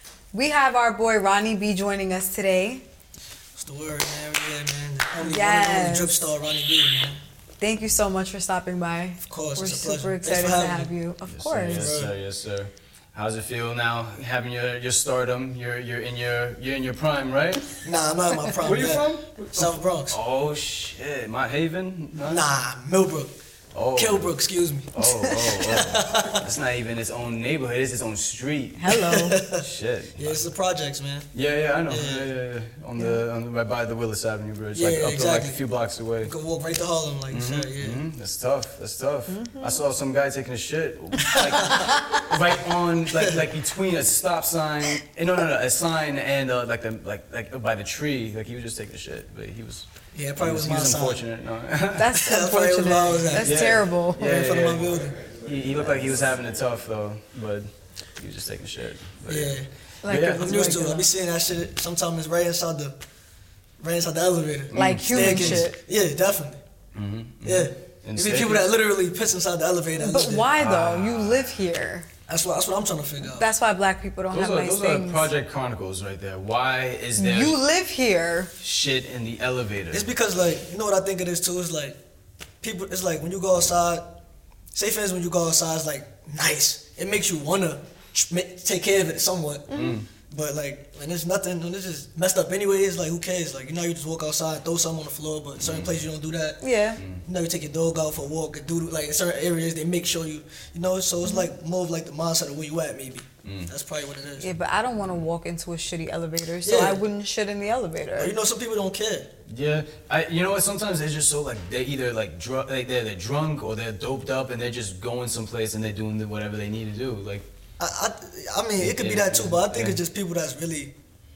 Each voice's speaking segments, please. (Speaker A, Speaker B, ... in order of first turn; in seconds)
Speaker A: 0.3-2.8, 5.2-6.2, 7.6-11.9, 28.8-29.4, 33.0-33.2, 39.3-39.8, 41.4-41.9, 52.0-54.2, 60.0-61.1, 64.7-65.8, 70.0-72.1, 73.2-75.3, 77.2-78.5, 89.7-90.0, 96.6-97.0, 101.2-101.5, 104.4-108.3
Speaker B: 3.5-7.2, 9.3-10.9, 11.6-12.2, 17.8-20.2, 22.3-23.3, 23.9-26.4, 28.9-29.6, 30.2-31.3, 31.9-32.3, 34.7-35.6, 36.2-38.0, 41.4-41.9, 50.1-51.3, 52.2-55.2, 59.3-59.7, 60.4-63.0, 63.8-66.6, 67.4-70.7, 72.3-73.5, 79.9-82.0, 82.6-84.2, 84.7-89.7, 90.3-96.6, 97.2-104.5, 106.7-107.0, 108.2-109.3, 117.8-120.9
Speaker C: 11.3-17.7, 18.6-22.5, 23.7-24.4, 24.9-30.4, 31.3-36.3, 37.3-49.9, 50.4-52.1, 53.3-60.6, 64.7-65.7, 67.0-68.7, 70.6-71.6, 74.3-77.6, 78.6-80.1, 89.7-90.1, 95.6-96.0, 103.4-103.7, 109.5-117.5, 118.7-120.0